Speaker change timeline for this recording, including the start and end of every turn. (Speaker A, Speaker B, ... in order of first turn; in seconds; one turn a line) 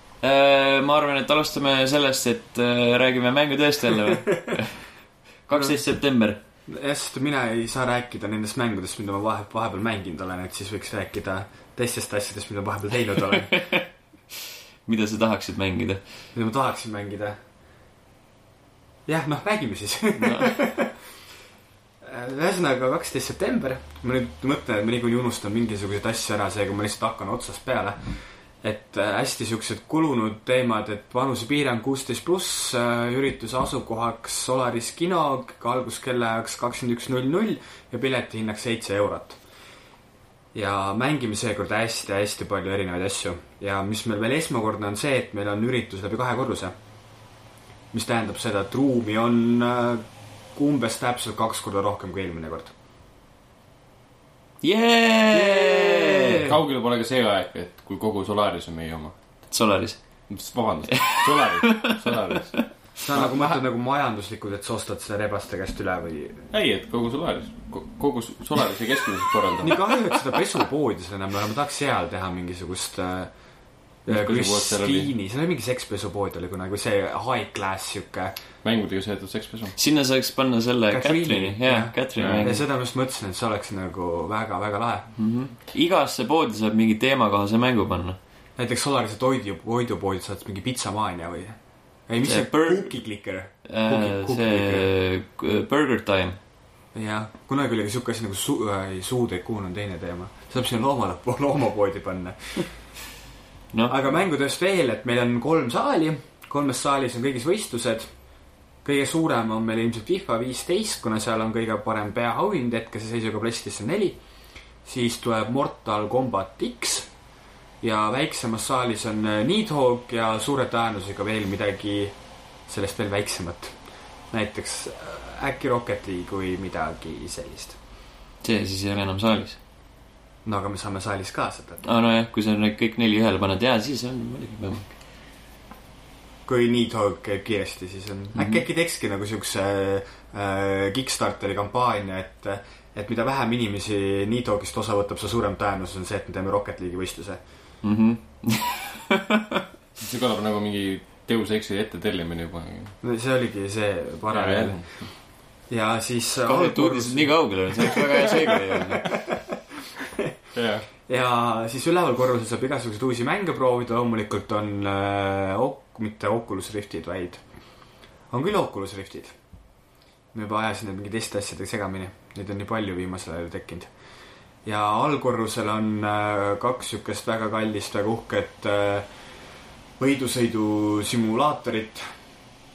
Speaker A: 0.2-4.8
Speaker A: 5.5-6.4
Speaker B: 5.5-5.8
Speaker B: 6.7-13.7
Speaker A: 13.5-13.8
Speaker A: 14.8-16.0
Speaker B: 16.3-17.4
Speaker B: 19.1-20.9
Speaker A: 20.2-20.5
Speaker B: 22.0-39.4
Speaker B: 40.5-46.7
Speaker B: 47.9-52.7
Speaker A: 54.6-56.4
Speaker B: 55.3-56.6
Speaker C: 56.4-59.1
Speaker A: 59.5-60.0
Speaker C: 60.3-63.6
Speaker A: 60.9-62.1
Speaker B: 63.0-66.4
Speaker C: 66.5-69.8
Speaker B: 69.6-73.3
Speaker B: 74.0-78.3
Speaker C: 74.1-75.1
Speaker C: 78.6-79.7
Speaker A: 79.8-82.6
Speaker B: 80.9-85.1
Speaker C: 82.2-82.5
Speaker A: 85.2-88.2
Speaker B: 88.6-94.9
Speaker A: 92.2-92.9
Speaker A: 93.6-96.4
Speaker B: 96.9-102.8
Speaker B: 103.9-108.1
Speaker B: 108.8-114.2
Speaker B: 114.8-117.1
Speaker B: 117.8-122.1
Speaker B: 122.7-123.8
Speaker B: 124.3-127.8
Speaker A: 128.4-129.6
Speaker B: 130.4-131.8
Speaker A: 131.8-134.9
Speaker B: 136.4-147.4
Speaker A: 138.3-138.6
Speaker A: 147.8-149.6
Speaker C: 150.0-152.9
Speaker B: 153.0-154.8
Speaker C: 154.3-155.0
Speaker B: 155.7-159.6
Speaker A: 156.4-159.1
Speaker C: 160.5-160.8
Speaker B: 161.1-167.4
Speaker B: 168.3-169.3
Speaker B: 170.3-173.9
Speaker B: 174.6-179.1
Speaker B: 180.0-182.1